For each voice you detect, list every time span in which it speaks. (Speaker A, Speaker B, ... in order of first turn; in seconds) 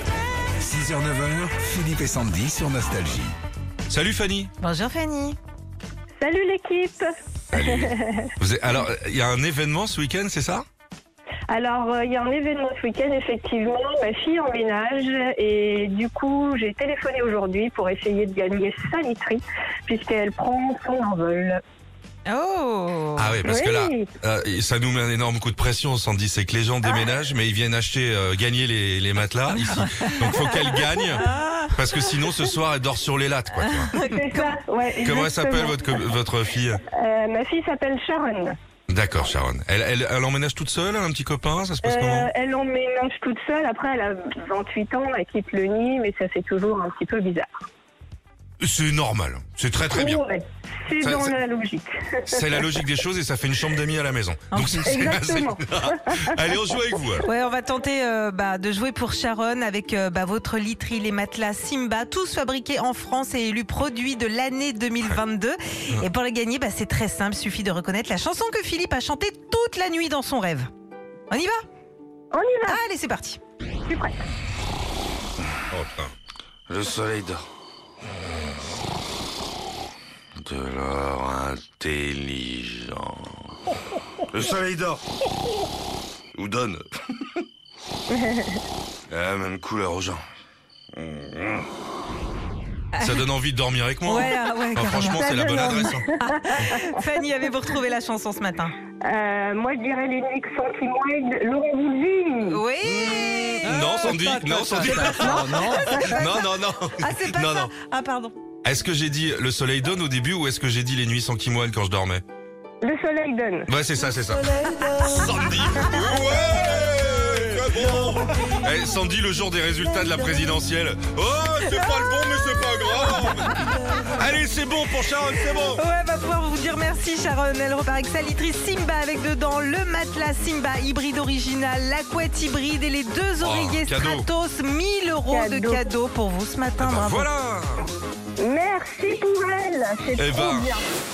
Speaker A: 0.6-3.3, 105.2-105.8
Speaker B: 3.9-4.5, 7.5-10.7, 23.2-34.0, 35.0-36.8, 38.9-42.3, 48.6-50.2, 51.0-51.4, 52.3-57.3, 75.7-76.1, 76.8-77.2, 81.5-81.8, 84.3-85.0, 86.4-86.7, 89.2-90.1, 93.0-96.1, 102.8-107.7, 108.6-112.2, 113.7-125.8, 133.4-134.3, 136.8-137.9, 140.2-140.7
Speaker C: 4.6-5.4, 22.3-23.4, 31.2-31.7, 33.7-34.5, 54.5-55.1, 57.2-70.7, 71.3-71.6, 72.7-73.4, 94.1-98.8, 102.5-108.4, 125.7-137.3
Speaker D: 6.2-8.3, 11.5-21.6, 23.4-24.1, 34.0-35.8, 36.9-38.6, 41.8-47.5, 49.9-52.5, 54.9-56.4, 72.3-72.8, 73.9-74.1, 88.1-88.6, 95.0-96.8, 99.0-102.6, 112.8-113.7, 135.3-135.8, 138.4-140.8
Speaker E: 80.6-82.2, 86.4-86.7, 89.4-89.8